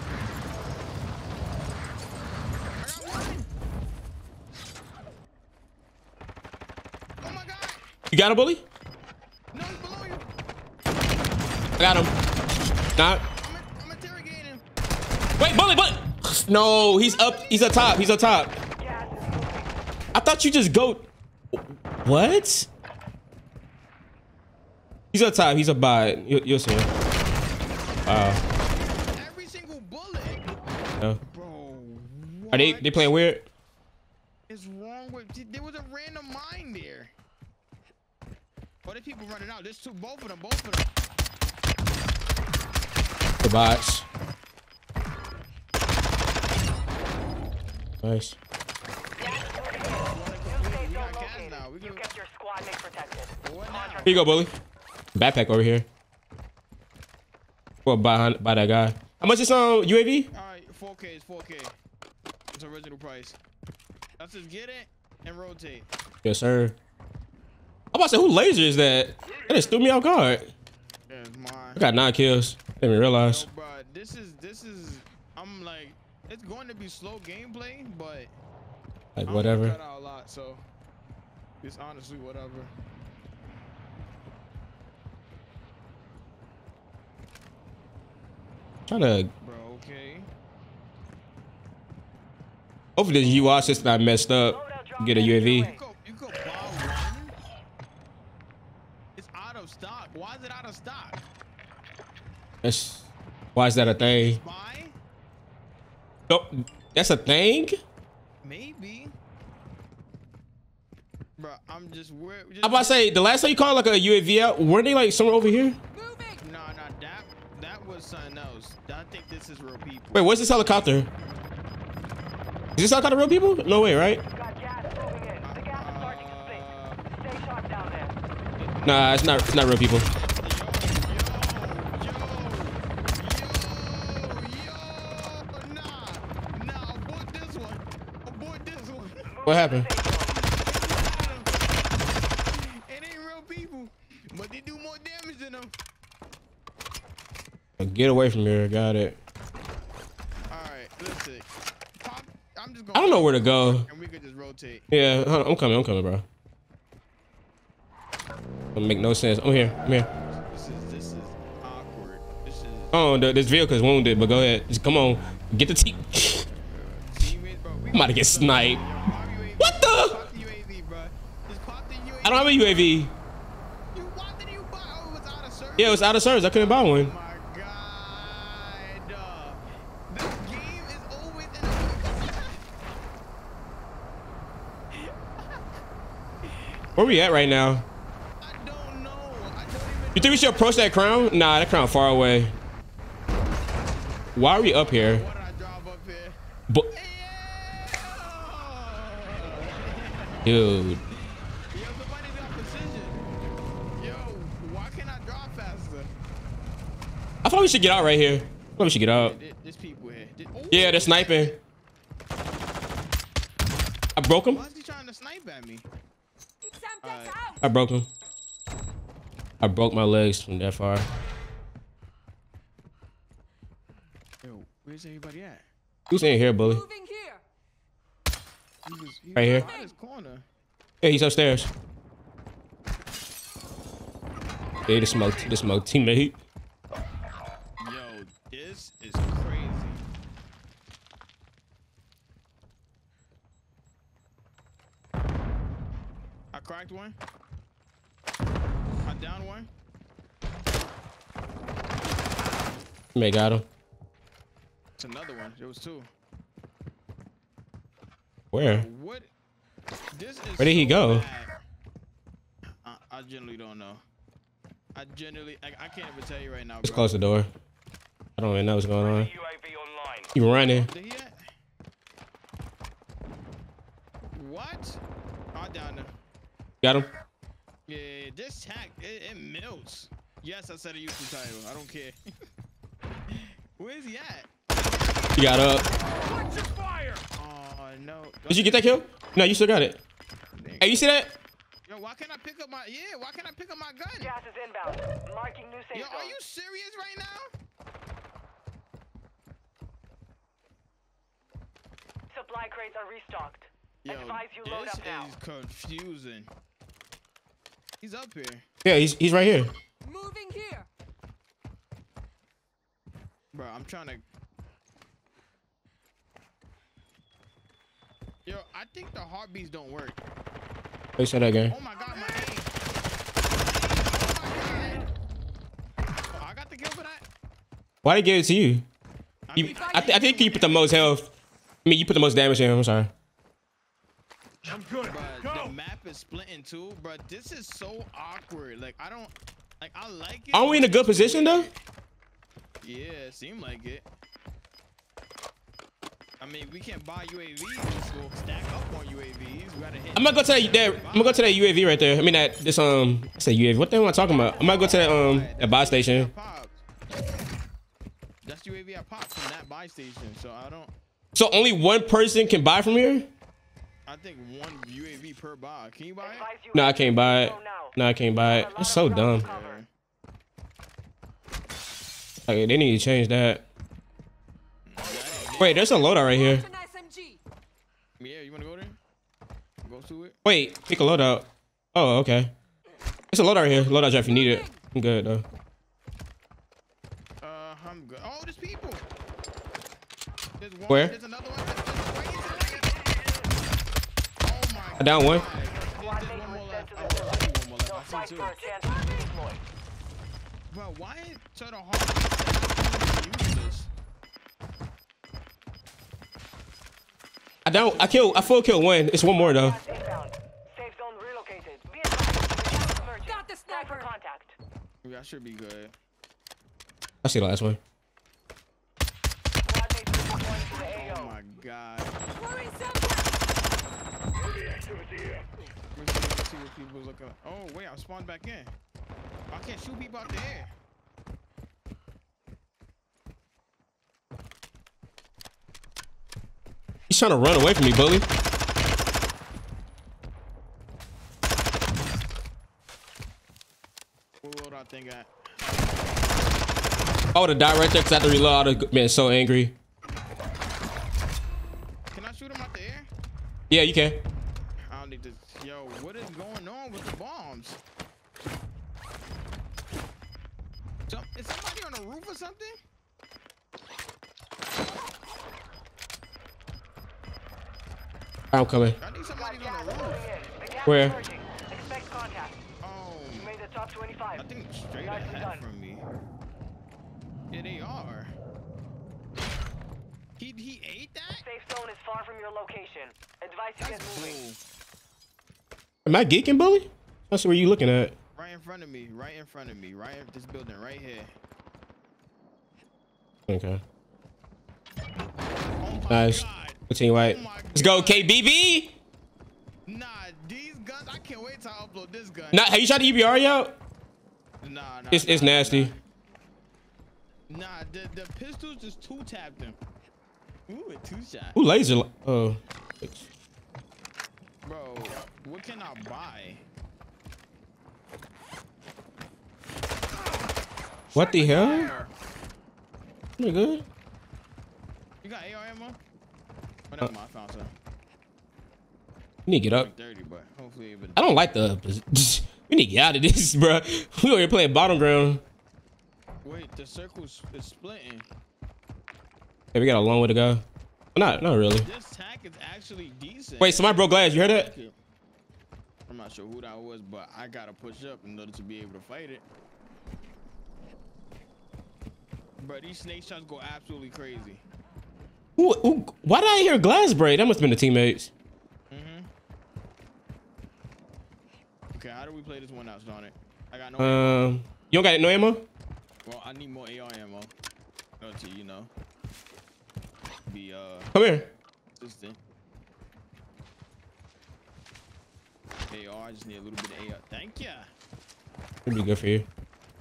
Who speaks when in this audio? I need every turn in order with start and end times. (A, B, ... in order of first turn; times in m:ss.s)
0:02.8-0:03.5 A
0:07.2-0:07.8 A
0:08.1-0:08.6 B
0:09.5-0:10.2 A
0:11.8-0:12.1 B
0:13.0-0:13.2 B
0:13.4-0:14.6 A
0:15.4-0:18.6 B
0:18.8-0:19.7 C
0:20.1-0:22.7 B
0:25.1-0:26.9 B
0:28.0-0:28.4 B
0:28.0-0:30.5 A
0:31.2-0:33.1 A
0:32.5-0:33.4 B
0:34.5-0:37.1 A
0:38.8-0:40.9 A
0:43.4-0:44.0 B
0:48.0-0:48.4 B
0:49.2-0:54.2 C
0:49.8-0:52.0 A
0:53.4-0:54.2 A
0:54.0-0:54.5 B
0:55.1-0:55.8 B
0:57.8-1:00.3 B
1:00.3-1:01.7 A
1:02.5-1:03.4 A
1:04.2-1:05.9 A
1:06.2-1:06.7 B
1:07.9-1:10.5 B
1:11.1-1:11.9 A
1:11.8-1:13.4 B
1:13.2-1:18.3 A
1:19.2-1:19.8 B
1:19.2-1:20.6 A
1:21.6-1:22.7 A
1:28.9-1:29.3 B
1:29.4-1:30.3 A
1:33.0-1:35.7 B
1:33.2-1:33.8 A
1:34.5-1:35.8 C
1:35.6-1:37.3 A
1:39.2-1:41.2 A
1:42.6-1:44.4 B
1:43.7-1:44.9 A
1:46.3-1:47.8 B
1:48.4-1:49.1 A
1:51.4-1:53.1 A
1:52.6-1:55.8 B
1:55.9-1:56.4 D
1:56.4-2:00.8 A
2:00.1-2:01.1 B
2:02.8-2:04.2 B
2:04.3-2:08.2 C
2:05.4-2:07.0 A
2:08.6-2:19.3 A
2:08.8-2:10.1 B
2:19.3-2:20.4 C
2:19.4-2:19.8 B
2:20.3-2:21.6 A
2:22.5-2:25.7 A
2:27.8-2:29.2 B
2:30.5-2:31.5 A
2:32.0-2:34.9 A
2:32.9-2:33.8 B
2:34.9-2:36.2 B
2:38.7-2:40.1 B
2:39.8-2:42.9 A
2:42.9-2:46.4 B
2:46.6-2:53.0 A
2:47.9-2:48.8 B
2:49.6-2:50.2 B
2:52.2-2:53.1 B
2:53.9-3:02.6 A
2:55.8-2:57.1 B
3:04.9-3:05.6 A
3:06.4-3:07.6 A
3:07.0-3:07.8 B
3:08.4-3:11.2 A
3:10.2-3:12.5 B
3:14.4-3:15.2 B
3:14.5-3:16.4 A
3:16.9-3:20.5 A
3:20.4-3:21.0 B
3:21.7-3:23.2 A
3:24.0-3:26.1 A
3:27.4-3:29.3 B
3:29.1-3:31.6 A
3:30.7-3:31.5 B
3:34.2-3:34.6 B
3:34.5-3:35.8 A
3:36.6-3:37.6 D
3:37.0-3:37.4 A
3:37.6-3:38.1 B
3:39.6-3:41.1 B
3:44.4-3:45.6 A
3:46.1-3:46.8 B
3:46.5-3:47.4 D
3:48.8-3:50.4 A
3:49.4-3:49.7 B
3:49.4-3:49.9 D
3:51.0-3:51.7 B
3:54.9-3:56.4 B
3:57.8-4:00.0 A
4:06.5-4:07.2 A
4:09.0-4:09.7 A
4:13.1-4:13.6 B
4:15.0-4:16.1 A
4:18.5-4:18.8 B
4:18.6-4:19.3 A
4:20.1-4:21.5 A
4:20.6-4:21.3 B
4:22.8-4:24.0 A
4:24.9-4:27.1 A
4:26.8-4:27.5 B
4:28.4-4:29.3 B
4:29.2-4:30.3 C
4:30.3-4:30.9 B
4:30.7-4:31.4 A
4:34.3-4:35.0 A
4:35.5-4:36.1 A
4:36.8-4:37.1 B
4:37.9-4:42.2 A
4:43.3-4:46.3 A
4:45.4-4:45.8 B
4:46.5-4:47.1 D
4:47.4-4:49.0 A
4:48.5-4:50.0 B
4:50.5-4:51.0 A
4:50.8-4:51.4 B
4:51.9-4:54.3 A
4:54.2-4:56.4 C
4:55.9-4:57.5 A
5:02.3-5:05.3 C
5:04.0-5:06.5 A
5:08.0-5:08.6 A
5:08.8-5:09.7 B
5:10.0-5:10.9 D
5:13.5-5:14.2 A
5:18.4-5:20.2 A
5:21.2-5:21.7 B
5:21.7-5:22.7 A
5:22.0-5:22.4 D
5:23.6-5:25.1 A
5:26.3-5:27.2 A
5:28.0-5:28.8 B
5:29.5-5:31.0 A
5:29.5-5:31.3 B
5:29.7-5:30.4 D
5:31.8-5:33.1 B
5:34.7-5:41.8 A
5:40.5-5:41.7 B
5:42.8-5:44.1 A
5:46.4-5:51.6 A
5:50.1-5:56.3 B
5:54.7-5:56.8 A
5:58.4-6:00.9 A
6:01.3-6:03.3 B
6:04.0-6:06.5 A
6:06.2-6:09.8 C
6:06.7-6:09.5 B
6:09.4-6:09.9 A
6:12.4-6:13.6 B
6:14.8-6:15.8 A
6:15.4-6:17.4 D
6:15.6-6:16.6 B
6:18.2-6:19.0 A
6:19.8-6:20.4 A
6:20.4-6:22.5 B
6:23.3-6:25.4 B
6:24.2-6:24.8 D
6:27.4-6:29.0 A
6:30.6-6:32.9 A
6:30.9-6:31.1 B
6:34.4-6:38.6 A
6:35.0-6:35.4 B
6:35.4-6:39.6 C
6:38.9-6:39.2 D
6:40.7-6:43.9 A
6:47.6-6:49.8 B
6:47.8-6:48.5 A
6:49.1-6:54.6 C
6:52.6-6:54.1 D
6:55.0-6:55.9 A
6:57.2-6:57.8 B
6:59.6-7:01.3 C
7:00.7-7:02.2 A
7:02.3-7:03.4 D
7:05.9-7:08.7 A
7:09.5-7:10.7 A
7:17.1-7:18.3 B
7:24.4-7:26.3 A
7:27.3-7:29.7 B
7:32.1-7:33.1 A
7:33.7-7:34.2 B
7:34.9-7:37.8 A
7:41.1-7:42.8 A
7:48.5-7:49.0 B
7:49.0-7:50.2 A
7:49.3-7:52.6 C
7:50.8-7:51.2 B
7:52.8-7:53.5 A
7:53.4-7:54.4 C
7:54.3-7:56.1 A
7:55.0-7:55.6 C
7:57.5-7:58.3 A
8:00.4-8:01.4 A
8:01.4-8:04.4 C
8:03.8-8:04.6 A
8:06.0-8:08.1 B
8:08.4-8:11.3 A
8:13.5-8:13.8 B
8:15.8-8:18.3 A
8:16.1-8:19.0 B
8:19.9-8:22.7 A
8:22.5-8:23.8 B
8:24.6-8:26.0 A
8:25.1-8:25.9 B
8:27.5-8:29.8 A
8:30.7-8:31.6 A
8:31.5-8:33.2 B
8:34.6-8:36.6 A
8:41.1-8:42.1 A
8:41.1-8:41.9 B
8:43.4-8:43.8 B
8:45.2-8:46.0 A
8:46.9-8:47.7 A
8:49.4-8:49.9 B
8:49.8-8:51.3 A
8:51.2-8:55.4 B
8:56.4-8:58.3 A
8:59.7-9:00.6 B
9:01.1-9:01.9 B
9:01.8-9:04.9 A
9:03.6-9:04.7 B
9:06.1-9:09.4 A
9:12.6-9:14.6 A
9:15.6-9:18.3 B
9:18.9-9:19.3 A
9:21.9-9:24.4 A
9:24.0-9:25.6 B
9:26.2-9:27.5 A
9:28.2-9:28.9 A
9:30.5-9:31.1 A
9:31.1-9:31.4 B
9:32.0-9:32.4 A
9:35.9-9:37.9 A
9:38.8-9:39.5 B